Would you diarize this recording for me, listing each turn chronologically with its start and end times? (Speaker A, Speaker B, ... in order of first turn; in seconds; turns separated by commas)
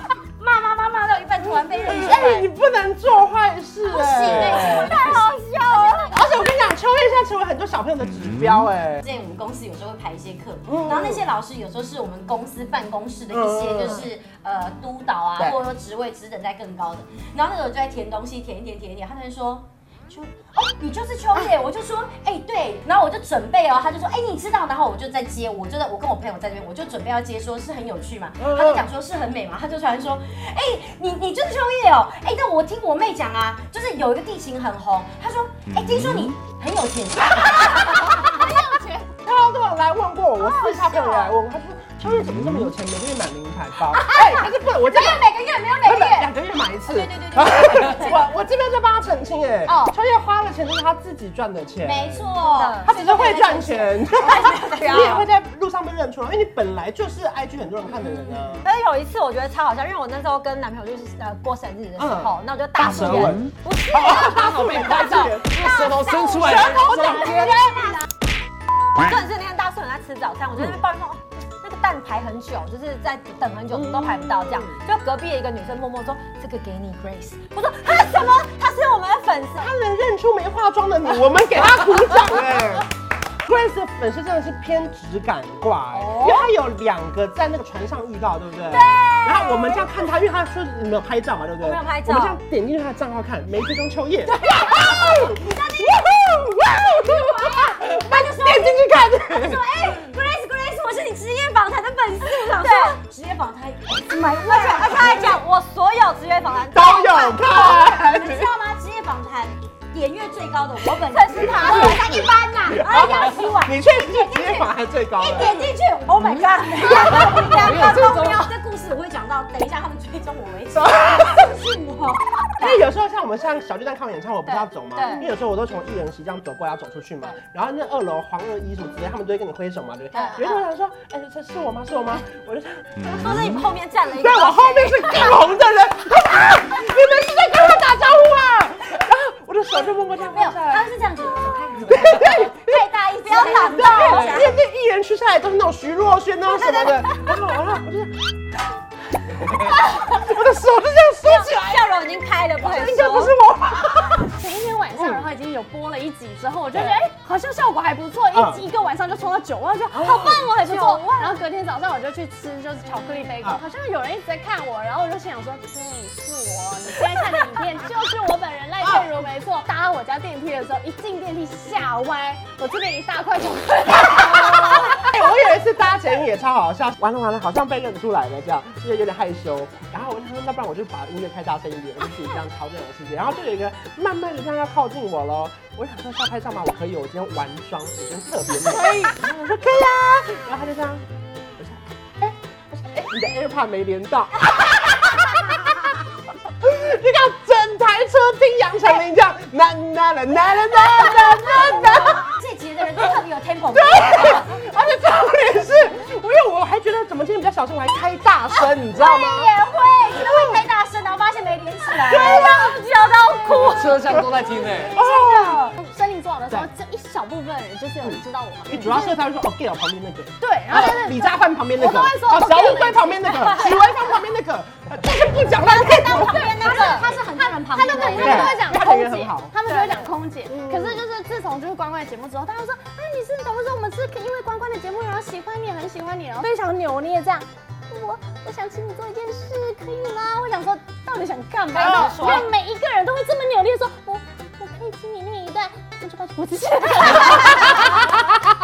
Speaker A: 0.4-2.2, Speaker B: 1.5-2.5, Speaker C: 1.9-5.0, Speaker B: 3.9-6.0, Speaker A: 3.9-6.2, Speaker C: 6.1-9.0, Speaker A: 9.0-38.5, Speaker C: 10.7-11.2, Speaker C: 13.3-14.0, Speaker C: 28.4-28.8, Speaker C: 39.2-45.3, Speaker B: 40.4-41.3, Speaker A: 44.9-46.3, Speaker C: 45.8-58.7, Speaker A: 46.8-48.2, Speaker B: 49.7-49.9, Speaker A: 51.8-55.1, Speaker B: 52.5-52.9, Speaker B: 54.5-55.2, Speaker B: 58.6-67.8, Speaker C: 62.0-65.8, Speaker D: 63.9-67.3, Speaker C: 66.4-67.9, Speaker B: 69.0-79.7, Speaker C: 73.7-74.8, Speaker C: 79.5-82.9, Speaker C: 83.4-95.4, Speaker A: 85.9-86.4, Speaker B: 88.8-89.4, Speaker A: 91.6-92.4, Speaker A: 94.3-105.4, Speaker C: 96.7-99.6, Speaker B: 102.6-102.9, Speaker B: 104.2-107.3, Speaker C: 106.7-108.5, Speaker A: 107.3-122.8, Speaker B: 111.3-113.4, Speaker C: 111.3-115.6, Speaker D: 116.2-118.5, Speaker C: 116.9-117.6, Speaker B: 117.0-117.3, Speaker C: 120.8-121.3, Speaker C: 122.6-133.0, Speaker B: 124.5-125.2, Speaker A: 130.1-130.5, Speaker A: 133.0-134.3, Speaker B: 133.2-133.5, Speaker C: 133.9-140.9, Speaker B: 134.1-135.1, Speaker A: 140.2-144.5, Speaker C: 141.8-148.2, Speaker B: 143.4-144.4, Speaker C: 149.5-151.9, Speaker B: 151.3-153.3, Speaker C: 152.6-154.3, Speaker E: 154.4-175.0, Speaker C: 158.3-158.7, Speaker C: 159.9-160.4, Speaker A: 160.1-161.2, Speaker B: 160.2-161.3, Speaker C: 174.1-191.0, Speaker C: 191.6-202.2, Speaker A: 201.1-204.5, Speaker C: 203.7-209.5, Speaker A: 208.5-213.8, Speaker C: 210.1-210.6, Speaker C: 212.0-212.7, Speaker E: 212.6-214.5, Speaker D: 213.4-215.0, Speaker C: 214.9-215.7, Speaker E: 215.1-219.1, Speaker C: 218.0-226.8, Speaker E: 220.4-223.4, Speaker A: 225.6-228.5, Speaker E: 226.6-248.3, Speaker C: 228.0-229.6, Speaker A: 229.7-230.0, Speaker C: 230.4-231.0, Speaker B: 241.8-242.2, Speaker A: 241.8-242.4